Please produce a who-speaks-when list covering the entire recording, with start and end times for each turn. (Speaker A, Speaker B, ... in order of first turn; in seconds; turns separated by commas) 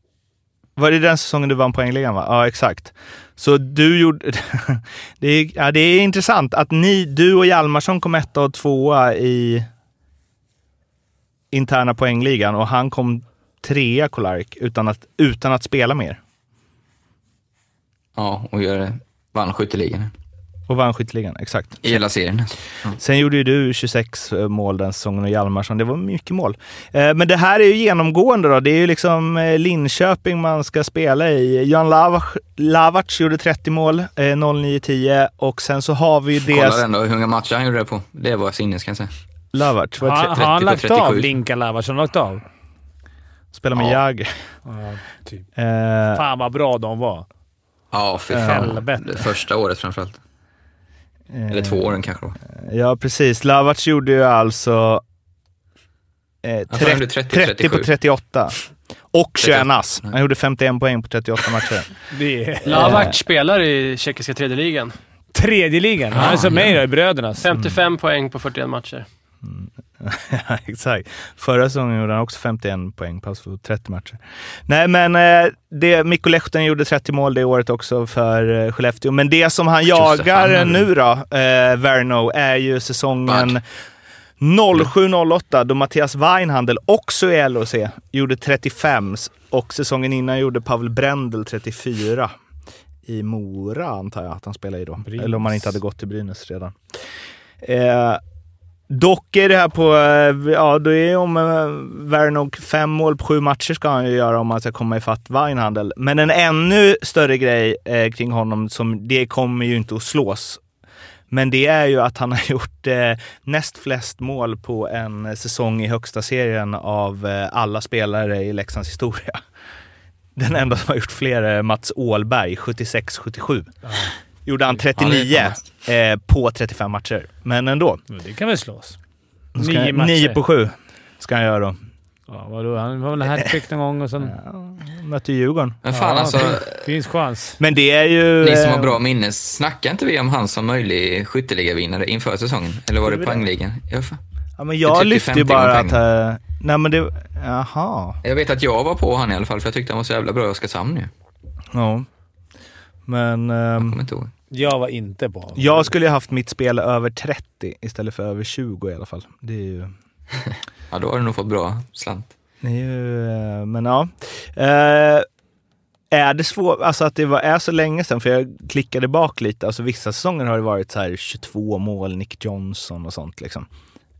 Speaker A: 0.8-9.7, Speaker A: 11.5-16.2, Speaker B: 18.1-20.1, Speaker A: 20.7-22.0, Speaker B: 21.8-22.9, Speaker A: 23.0-36.8, Speaker B: 36.5-39.1, Speaker A: 39.5-40.4, Speaker C: 40.0-42.4, Speaker B: 40.2-41.3, Speaker A: 43.5-44.3, Speaker B: 43.7-44.0, Speaker C: 44.6-45.4, Speaker A: 45.6-46.2, Speaker C: 46.1-47.2, Speaker B: 47.9-50.2, Speaker A: 48.3-48.7, Speaker C: 48.3-49.3, Speaker A: 51.3-52.0, Speaker B: 51.5-52.4, Speaker A: 52.5-55.0, Speaker A: 56.4-58.6, Speaker B: 56.7-57.9, Speaker A: 59.1-61.9, Speaker B: 59.4-60.1, Speaker C: 62.1-63.1, Speaker D: 62.6-64.9, Speaker A: 62.7-63.1, Speaker C: 65.3-67.4, Speaker B: 66.1-66.8, Speaker D: 67.4-69.0, Speaker A: 69.4-83.6, Speaker B: 79.9-80.9, Speaker B: 83.2-83.6, Speaker A: 84.4-92.3, Speaker A: 93.0-96.7, Speaker C: 95.0-95.8, Speaker A: 97.6-98.2, Speaker A: 98.9-110.6, Speaker A: 111.3-119.4, Speaker A: 120.4-123.7, Speaker C: 123.8-124.1, Speaker A: 124.5-128.0, Speaker B: 125.0-125.6, Speaker C: 128.1-129.0, Speaker A: 129.5-131.8, Speaker C: 129.6-130.4, Speaker C: 132.3-134.3, Speaker A: 134.2-135.8, Speaker B: 135.8-136.9, Speaker C: 135.9-137.6, Speaker A: 137.6-139.0, Speaker B: 138.4-144.2, Speaker A: 143.0-143.4, Speaker A: 144.6-148.2, Speaker B: 144.8-146.0, Speaker B: 148.2-151.1, Speaker A: 151.7-152.1, Speaker A: 153.1-154.0, Speaker B: 153.8-154.3, Speaker C: 154.5-155.9, Speaker A: 155.6-159.9, Speaker B: 160.9-162.3, Speaker A: 162.6-165.2, Speaker A: 166.1-173.7